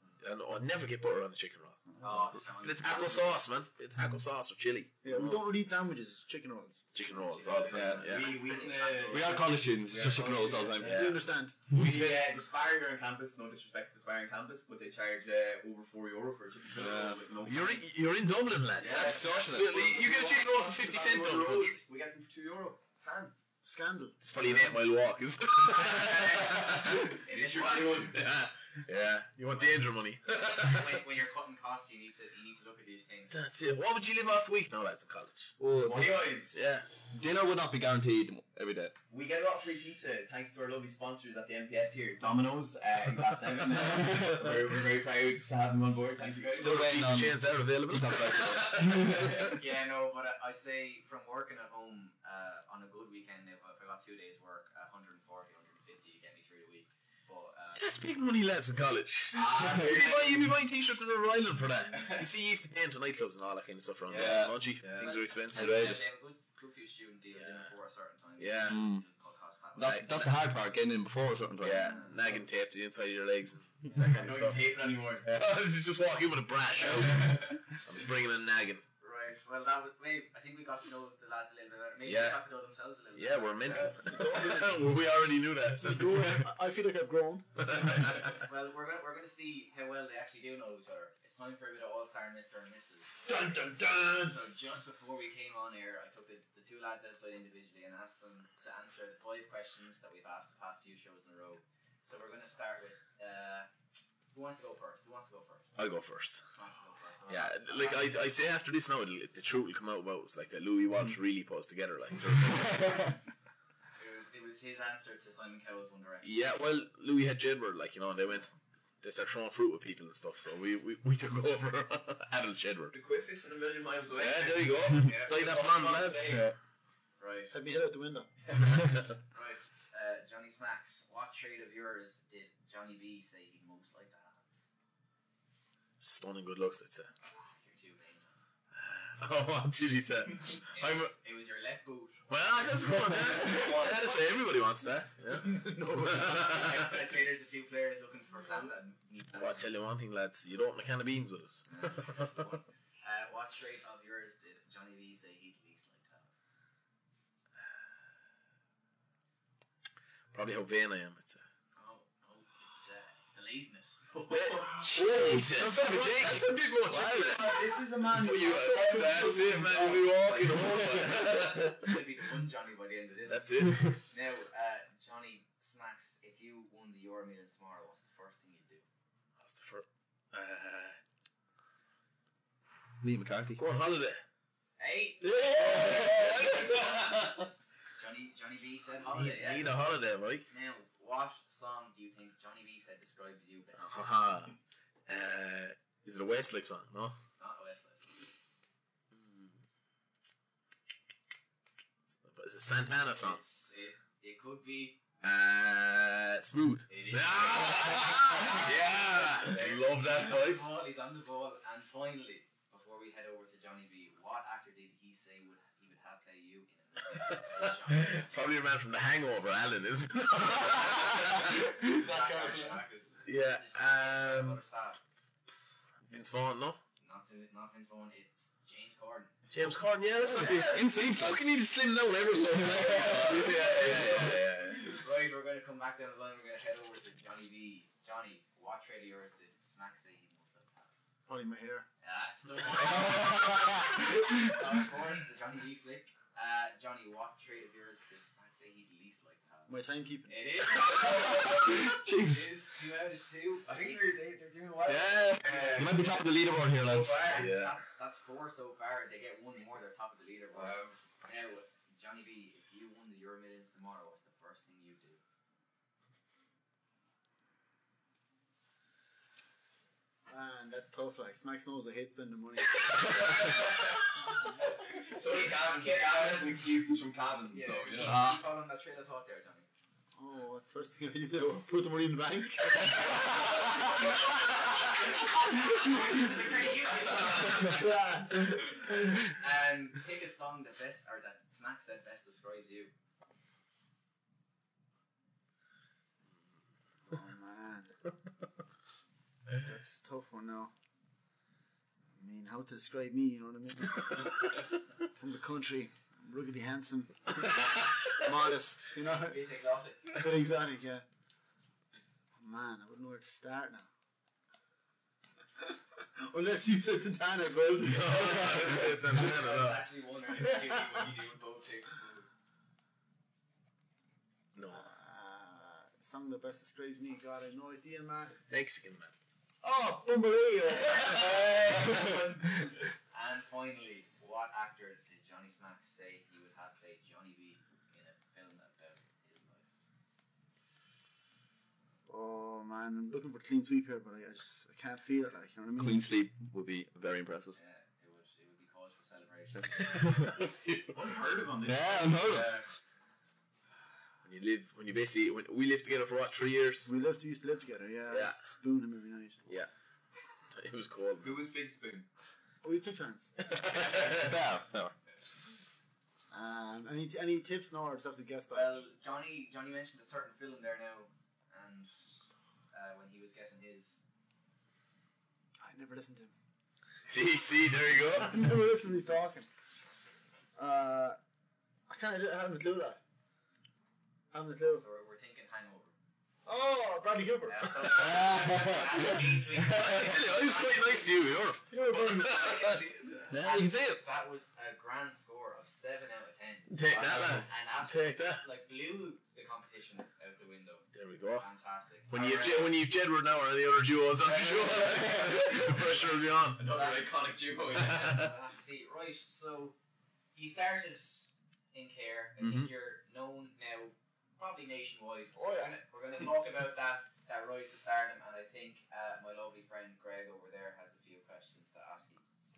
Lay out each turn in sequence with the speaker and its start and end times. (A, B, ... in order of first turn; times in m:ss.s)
0:00.2-0:01.8 A
0:02.0-0:03.4 B
0:02.6-0:05.5 A
0:05.0-0:06.9 C
0:06.9-0:08.4 A
0:07.2-0:09.6 B
0:07.4-0:11.2 D
0:09.1-0:11.0 E
0:10.8-0:12.3 A
0:10.8-0:11.6 C
0:11.7-0:17.8 D
0:16.7-0:17.4 E
0:17.4-0:21.8 A
0:18.8-0:23.3 D
0:18.9-0:19.8 E
0:23.6-0:24.2 C
0:24.2-0:31.0 A
0:25.7-0:28.1 B
0:25.8-0:28.2 D
0:30.3-0:33.4 B
0:33.3-0:35.5 A
0:35.6-0:36.2 E
0:35.8-0:36.6 D
0:36.5-0:36.9 A
0:37.1-0:38.9 E
0:39.1-0:47.0 D
0:46.5-0:49.5 E
0:46.6-0:49.5 A
0:49.0-0:57.9 B
0:57.8-1:05.9 A
0:59.3-1:00.5 D
0:59.4-1:00.3 B
1:02.0-1:02.2 D
1:04.0-1:05.1 D
1:04.1-1:04.6 E
1:05.0-1:10.3 B
1:05.5-1:06.1 E
1:07.4-1:07.7 A
1:08.4-1:08.8 A
1:08.7-1:09.0 E
1:09.8-1:12.0 E
1:11.6-1:14.6 A
1:13.9-1:15.3 D
1:15.2-1:18.8 A
1:17.2-1:17.4 D
1:19.0-1:24.0 B
1:22.0-1:22.4 A
1:23.1-1:26.4 A
1:24.0-1:24.9 C
1:25.8-1:27.6 C
1:27.6-1:28.4 A
1:28.2-1:33.2 B
1:33.2-1:34.4 C
1:34.2-1:43.7 B
1:44.3-1:45.7 B
1:45.8-1:46.4 A
1:46.5-1:48.2 B
1:47.3-1:53.2 A
1:54.0-1:56.5 B
1:56.2-2:02.9 A
2:02.9-2:06.4 D
2:04.2-2:06.5 A
2:05.0-2:06.4 B
2:07.2-2:07.5 B
2:07.5-2:08.3 C
2:09.3-2:14.4 B
2:16.0-2:17.1 A
2:17.2-2:18.3 B
2:18.7-2:21.1 A
2:20.7-2:22.2 B
2:22.3-2:26.9 A
2:25.4-2:26.8 C
2:26.4-2:29.7 B
2:29.3-2:32.4 A
2:31.7-2:36.3 B
2:40.3-2:41.4 A
2:41.8-2:44.1 B
2:44.1-2:45.0 D
2:44.3-2:52.0 A
2:45.0-2:45.9 B
2:45.8-2:46.3 E
2:46.8-2:51.1 D
2:48.4-2:50.0 C
2:50.9-2:58.8 B
2:53.3-2:54.0 A
2:59.4-3:01.0 A
3:03.0-3:03.6 E
3:03.6-3:04.2 A
3:04.8-3:07.4 B
3:05.2-3:07.3 A
3:08.0-3:09.8 B
3:09.1-3:10.5 A
3:10.5-3:14.1 B
3:13.8-3:14.5 A
3:15.1-3:17.2 A
3:17.4-3:18.3 B
3:22.2-3:23.4 A
3:23.2-3:25.0 B
3:25.2-3:30.7 A
3:26.9-3:38.5 B
3:37.5-3:41.6 A
3:40.8-3:45.0 B
3:41.8-3:42.8 D
3:43.2-3:44.6 A
3:46.1-3:46.8 A
3:47.0-3:49.3 B
3:49.5-3:55.0 A
3:50.3-3:51.5 E
3:52.6-3:53.9 E
3:53.2-4:00.9 B
4:01.3-4:01.9 C
4:02.0-4:14.1 B
4:09.7-4:10.4 C
4:11.2-4:12.5 E
4:13.6-4:16.2 D
4:14.8-4:17.2 E
4:15.4-4:16.1 B
4:16.8-4:25.2 B
4:16.9-4:17.4 D
4:17.3-4:17.8 A
4:20.5-4:21.0 D
4:30.3-4:33.5 C
4:35.0-4:38.2 D
4:35.0-4:36.6 B
4:37.5-4:39.7 B
4:38.0-4:38.4 E
4:40.2-4:44.1 C
4:45.4-4:47.9 B
4:47.3-4:48.9 C
4:49.2-4:52.9 B
4:57.1-4:58.0 C
4:59.6-5:00.7 C
5:02.2-5:09.4 C
5:09.1-5:10.2 B
5:10.1-5:11.0 C
5:12.4-5:13.9 C
5:15.7-5:19.2 C
5:17.8-5:19.8 A
5:19.1-5:22.3 B
5:20.4-5:20.8 C
5:24.5-5:24.8 A
5:24.7-5:28.4 C
5:28.5-5:29.1 A
5:29.6-5:32.1 C
5:30.8-5:39.7 B
5:42.1-5:46.1 C
5:45.8-5:47.6 E
5:47.5-5:50.4 B
5:50.9-5:52.1 D
5:51.6-5:52.6 E
5:51.6-5:52.7 B
5:54.2-5:56.9 A
5:56.8-5:59.4 C
5:58.1-5:58.4 A
6:00.5-6:01.3 A
6:01.2-6:02.1 D
6:02.6-6:03.4 C
6:03.4-6:04.3 A
6:04.0-6:04.9 E
6:06.3-6:08.8 C
6:08.5-6:11.9 B
6:12.7-6:14.0 B
6:15.6-6:16.3 C
6:17.1-6:18.4 A
6:18.1-6:19.5 C
6:20.6-6:21.2 C
6:21.9-6:23.0 C
6:24.3-6:24.8 C
6:24.7-6:25.9 B
6:26.4-6:28.3 C
6:27.4-6:31.3 B
6:28.1-6:29.2 E
6:29.6-6:32.8 A
6:31.7-6:32.6 C
6:32.2-6:36.8 B
6:32.5-6:33.3 D
6:33.3-6:34.0 E
6:36.7-6:38.4 A
6:36.9-6:37.4 E
6:37.4-6:42.8 B
6:40.9-6:41.5 A
6:42.1-6:46.7 A
6:44.2-6:45.9 D
6:46.6-6:48.3 D
6:46.7-6:47.1 B
6:47.7-6:49.8 B
6:47.7-6:48.3 A
6:50.3-7:02.2 B
6:52.4-6:52.7 A
6:55.4-6:55.7 C